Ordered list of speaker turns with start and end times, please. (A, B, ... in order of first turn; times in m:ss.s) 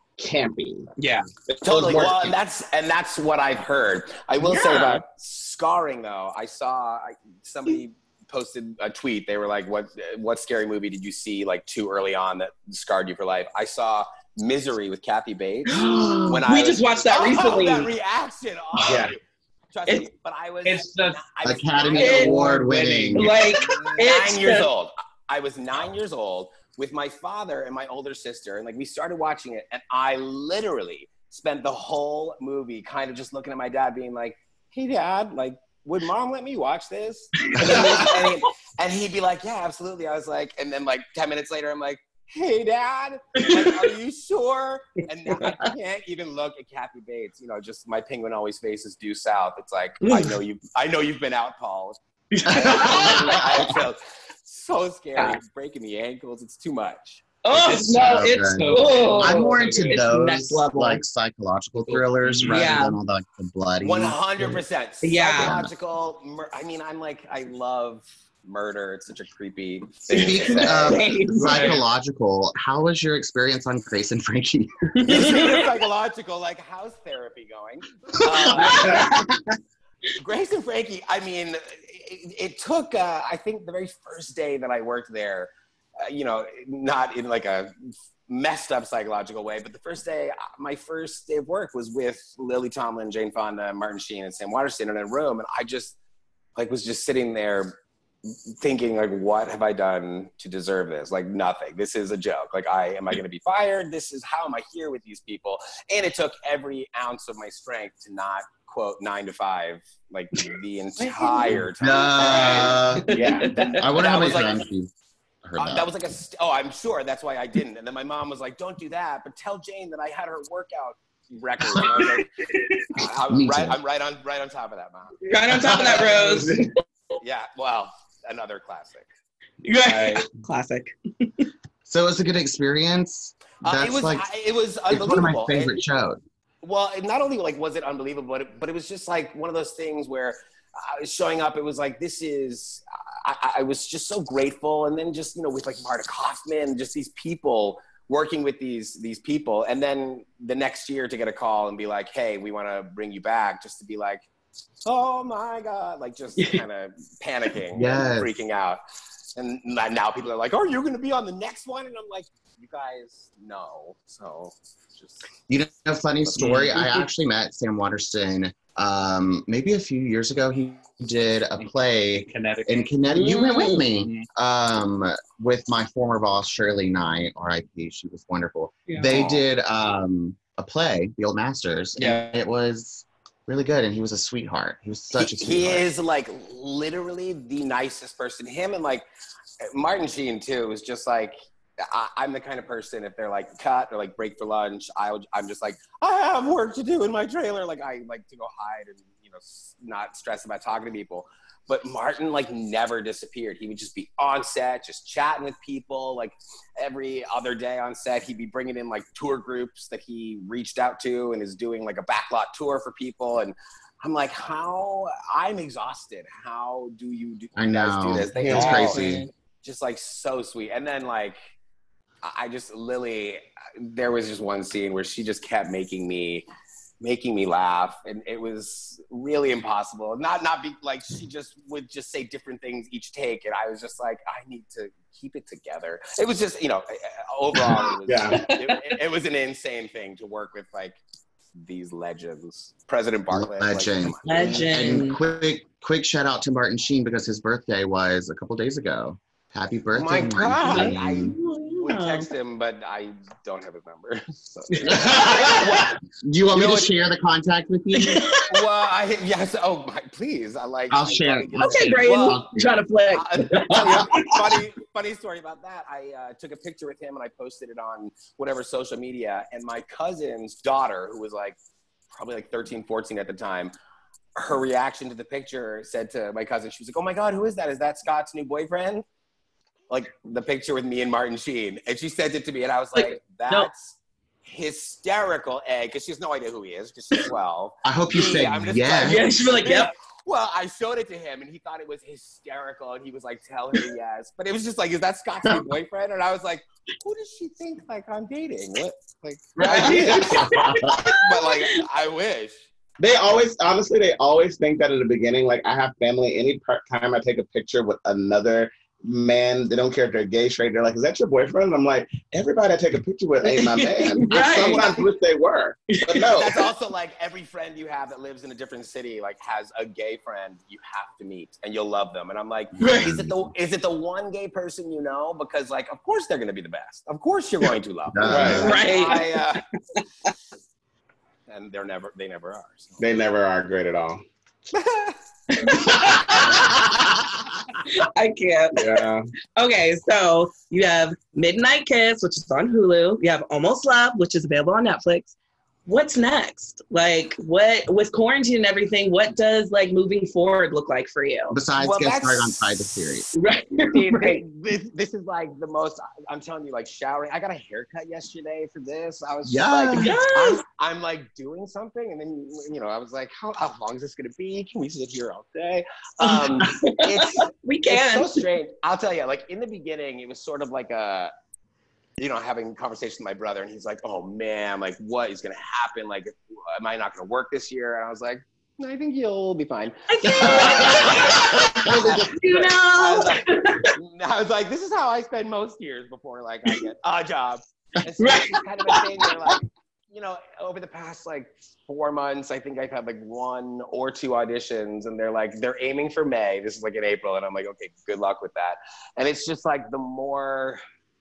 0:00.2-0:00.9 A
0:01.0-0:01.2 B
0:01.5-0:02.3 A
0:01.6-0:19.2 C
0:01.8-0:02.2 D
0:04.6-0:05.0 A
0:15.7-0:17.9 E
0:18.8-0:19.1 A
0:19.7-0:22.7 C
0:20.6-0:21.2 B
0:21.4-0:23.4 D
0:21.9-0:22.6 E
0:21.9-0:23.5 B
0:23.1-0:24.7 E
0:23.6-0:57.4 C
0:37.6-0:38.1 E
0:45.3-0:45.6 E
0:50.0-0:50.4 E
0:52.3-0:53.4 E
0:52.5-0:53.6 D
0:57.4-0:57.9 E
0:57.5-1:04.6 D
0:57.6-1:00.0 B
0:58.7-1:01.0 E
1:01.8-1:02.8 B
1:02.5-1:03.0 E
1:03.8-1:11.1 C
1:05.0-1:05.6 E
1:05.3-1:05.7 D
1:10.1-1:15.3 D
1:10.4-1:11.4 E
1:11.4-1:11.8 B
1:15.0-1:15.7 E
1:15.0-1:19.1 C
1:18.5-1:19.3 E
1:18.6-1:19.1 A
1:20.2-1:27.7 C
1:28.3-1:36.0 C
1:36.5-1:54.6 C
1:51.0-1:51.6 E
1:51.8-1:53.2 D
1:52.2-1:52.9 B
1:53.1-1:53.8 E
1:53.1-1:53.5 A
1:53.7-1:54.9 D
1:55.4-1:55.9 D
1:55.6-2:02.3 C
2:02.9-2:06.4 C
2:03.3-2:03.8 D
2:05.2-2:06.6 E
2:05.8-2:06.7 A
2:07.2-2:09.1 C
2:09.6-2:11.5 E
2:09.8-2:10.2 B
2:11.8-2:14.3 D
2:13.6-2:15.8 C
2:14.9-2:16.2 D
2:16.6-2:34.2 C
2:34.8-2:38.8 C
2:37.7-2:38.3 D
2:39.4-2:45.2 C
2:45.5-3:05.9 D
2:46.4-2:46.9 B
2:51.6-2:53.0 B
2:53.1-2:53.8 E
2:53.8-2:54.3 B
3:02.0-3:02.4 B
3:05.1-3:09.0 C
3:09.6-3:41.4 C
3:37.6-3:39.2 D
3:38.3-3:39.1 A
3:38.8-3:39.2 E
3:42.2-3:46.4 C
3:47.0-4:01.0 C
3:58.0-3:58.4 A
3:58.3-3:58.9 E
4:01.5-4:05.0 C
4:03.3-4:11.4 D
4:04.2-4:05.2 E
4:09.9-4:16.0 C
4:10.6-4:12.3 E
4:14.7-4:15.6 E
4:14.9-4:15.6 D
4:16.2-4:18.3 D
4:16.5-4:16.9 C
4:18.0-4:18.4 E
4:18.4-4:22.4 C
4:20.9-4:22.5 D
4:21.6-4:24.3 E
4:23.1-4:31.6 C
4:32.1-4:33.7 C
4:34.4-4:39.0 C
4:39.9-5:02.6 C
4:43.0-4:43.7 E
4:47.8-4:49.3 D
4:49.0-4:49.9 E
4:59.6-5:00.8 B
4:59.6-5:00.6 A
4:59.6-5:01.8 E
5:03.0-5:16.6 A
5:13.4-5:15.0 E
5:15.9-5:16.4 E
5:16.3-5:29.6 C
5:22.8-5:23.5 D
5:22.8-5:23.1 E
5:28.1-5:28.8 D
5:28.2-5:28.8 A
5:28.4-5:29.4 E
5:31.5-5:33.0 C
5:33.0-5:34.2 A
5:34.7-5:35.9 C
5:35.5-5:36.6 E
5:37.8-5:45.3 E
5:38.8-5:39.2 A
5:45.8-5:51.6 E
5:51.5-5:53.3 D
5:51.8-5:52.8 C
5:53.3-5:54.4 E
5:53.9-6:11.3 C
5:59.4-6:00.2 D
5:59.9-6:00.6 E
6:06.2-6:08.4 E
6:12.2-6:40.8 C
6:20.1-6:23.9 E
6:28.2-6:29.6 E